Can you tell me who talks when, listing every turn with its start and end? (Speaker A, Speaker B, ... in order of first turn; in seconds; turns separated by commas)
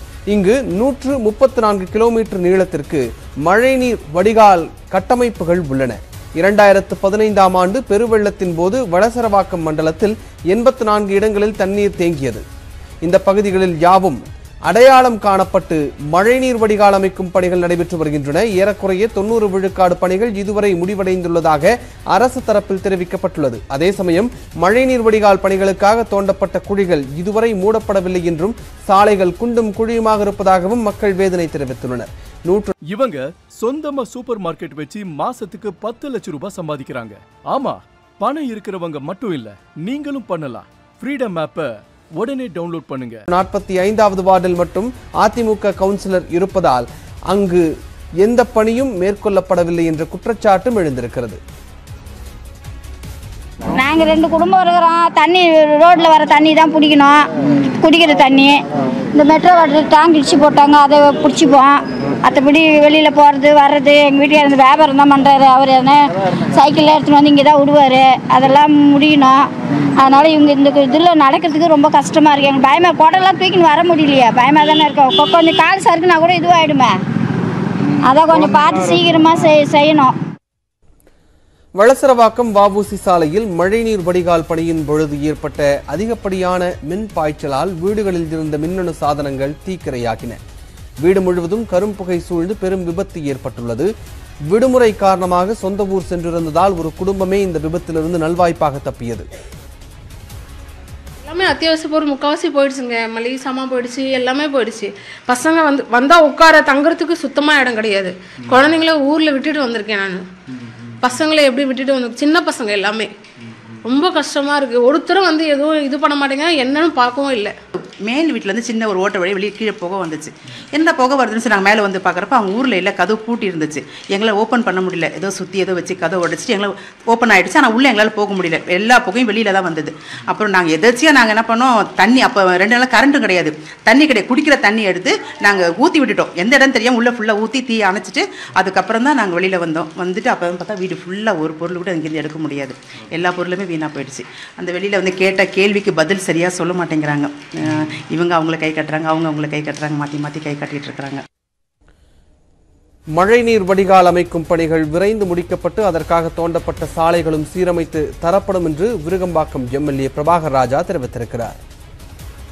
Speaker A: 0.3-12.4, Speaker A: 13.0-32.7, Speaker B: 32.9-43.2, Speaker A: 43.3-47.6, Speaker A: 48.2-51.4, Speaker C: 53.8-58.5, Speaker C: 59.1-69.4, Speaker C: 70.0-76.9, Speaker C: 78.1-80.1, Speaker A: 81.8-90.4, Speaker A: 91.0-93.9, Speaker A: 94.5-99.3, Speaker D: 101.3-110.2, Speaker D: 111.0-113.1, Speaker D: 113.8-117.5, Speaker E: 117.8-151.2, Speaker A: 153.2-161.6